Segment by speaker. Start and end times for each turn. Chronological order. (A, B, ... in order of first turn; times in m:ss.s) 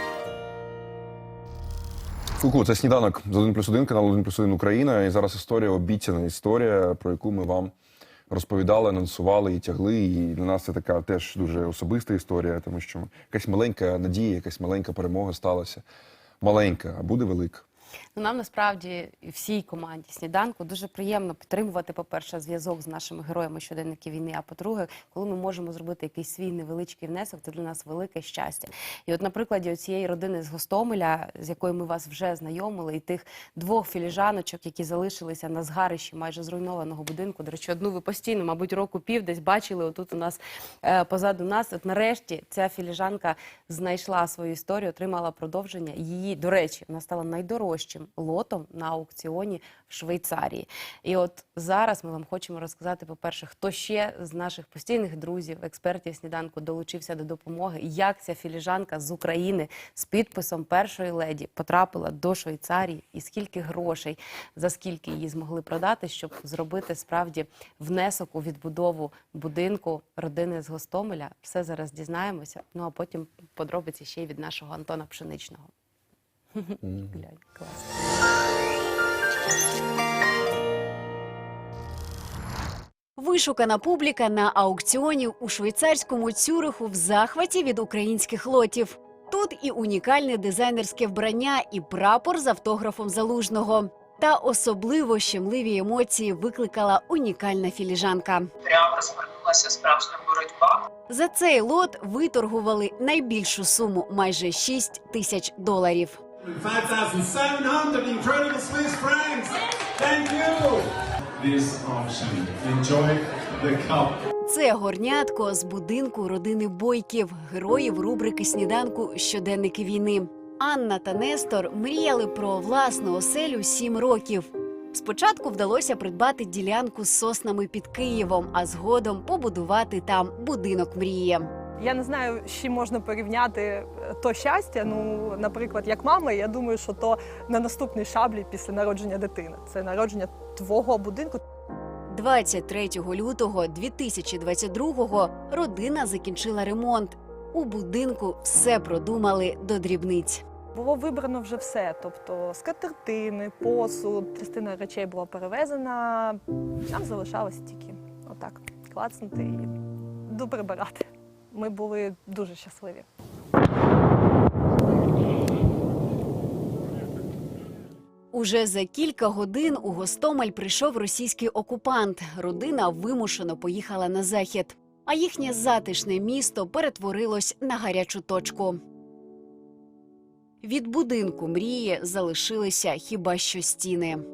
0:02.4-0:07.7 A
0:08.3-0:15.8 A
0:16.4-0:17.6 A
0:18.2-1:15.7 B
1:16.6-1:18.2 B
1:23.2-1:38.5 C
1:38.6-1:40.9 D
1:41.1-1:46.2 C
1:46.5-1:54.2 E
1:54.4-2:11.5 C
2:11.8-2:21.4 F
2:22.1-2:30.4 C
2:30.7-2:39.7 F
2:40.3-2:43.1 F
2:48.3-2:58.8 C
3:00.6-3:04.2 C